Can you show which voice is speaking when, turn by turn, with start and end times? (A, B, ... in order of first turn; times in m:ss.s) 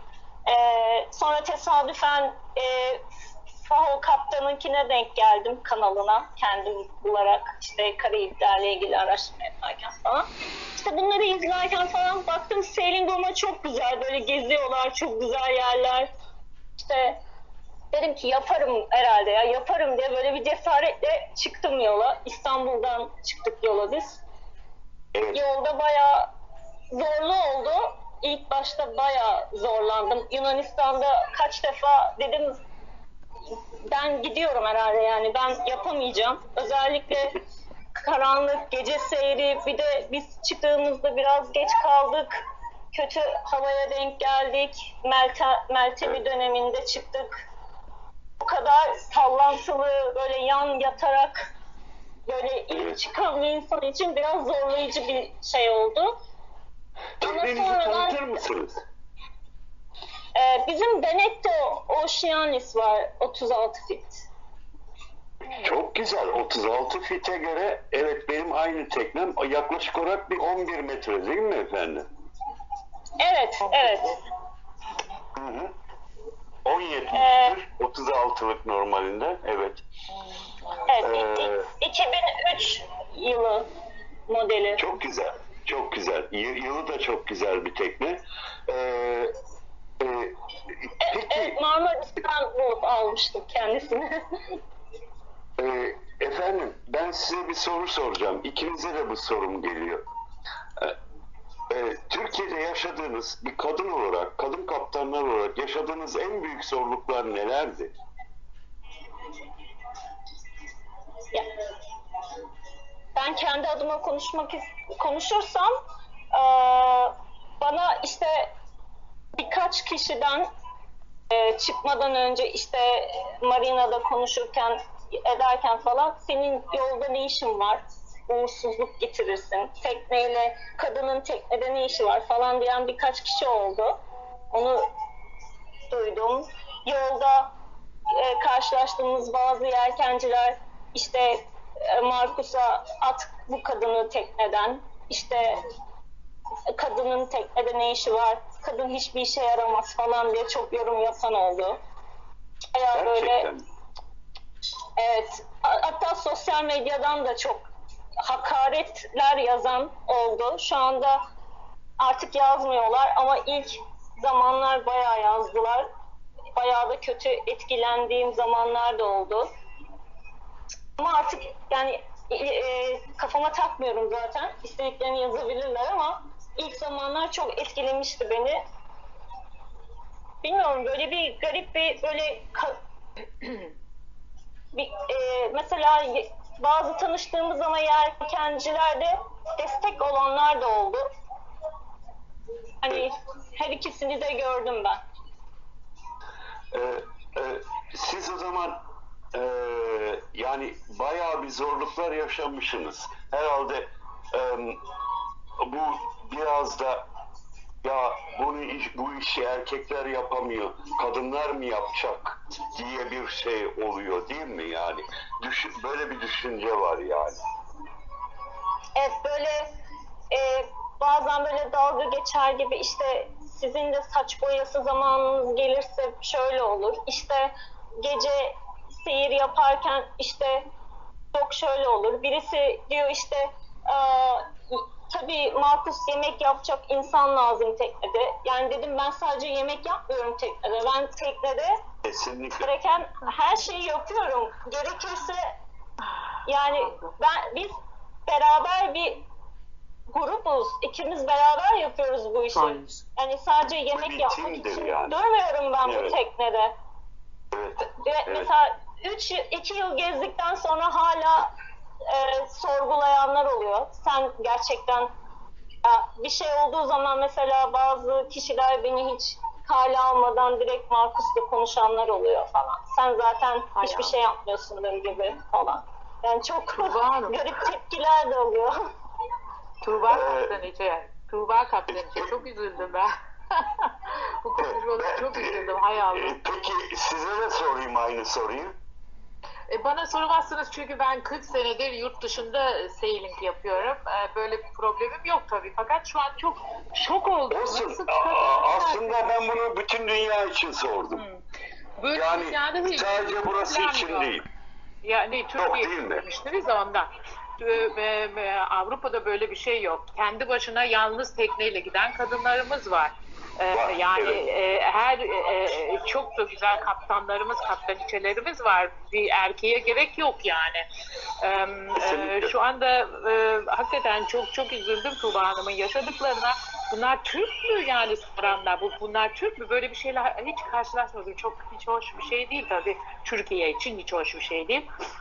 0:00.5-0:03.0 A
0:03.6-0:16.1 A
0:16.8-0:17.2 A
0:17.9-0:24.2 A
0:25.1-0:25.4 B
0:25.3-0:26.3 A
0:26.9-0:32.6 A
0:33.9-0:37.4 A
0:38.0-0:42.4 A
0:42.9-0:47.4 A
0:48.4-0:51.5 A
0:52.3-0:56.2 A
0:57.2-0:58.8 B
0:57.2-0:58.2 A
1:00.4-1:04.2 A
1:05.4-1:12.0 B
1:13.2-1:14.2 A
1:13.7-1:14.2 C
1:15.3-1:15.7 B
1:16.6-1:19.8 B
1:17.1-1:17.6 A
1:20.9-1:23.7 A
1:21.0-1:21.6 B
1:24.3-1:24.8 A
1:24.8-1:29.3 B
1:30.0-1:30.4 B
1:31.0-1:34.2 A
1:31.1-1:31.6 B
1:35.6-1:40.0 B
1:41.7-1:47.9 B
1:53.2-1:55.7 A
1:56.3-1:58.5 A
1:59.3-2:00.5 A
2:01.3-2:14.0 A
2:14.5-2:14.8 A
2:15.9-2:17.5 A
2:18.1-2:25.6 A
2:26.8-2:31.8 A
2:32.7-2:33.5 A
2:32.9-2:33.6 B
2:35.0-2:37.7 A
2:38.2-2:41.2 A
2:42.0-2:45.9 A
2:46.6-2:49.5 A
2:51.0-2:58.6 A
3:00.4-3:02.8 A
3:04.7-3:11.0 A
3:12.8-3:15.0 A
3:16.7-3:18.8 B
3:19.3-3:24.8 B
3:25.6-3:27.1 B
3:27.8-3:37.4 B
3:39.0-3:39.7 A
3:40.3-3:50.7 A
3:51.3-4:01.8 A
4:02.0-4:02.7 B
4:02.6-4:05.5 A
4:06.4-4:09.2 A
4:06.8-4:07.1 C
4:10.1-4:16.7 A
4:12.5-4:13.0 C
4:13.9-4:15.2 B
4:15.8-4:16.2 B
4:17.5-4:18.5 B
4:17.9-4:21.5 A
4:22.1-4:25.1 A
4:25.8-4:38.8 A
4:33.8-4:34.1 C
4:36.7-4:37.4 C
4:39.8-4:43.9 C
4:40.1-4:40.6 B
4:41.9-4:42.3 B
4:44.4-4:46.4 C
4:44.6-4:48.7 B
4:49.7-4:59.4 C
4:57.5-5:01.2 B
5:01.1-5:01.4 C
5:02.0-5:04.4 C
5:02.1-5:04.4 B
5:05.0-5:20.9 C
5:05.6-5:06.2 B
5:13.7-5:14.4 B
5:21.4-5:34.8 C
5:22.0-5:22.5 B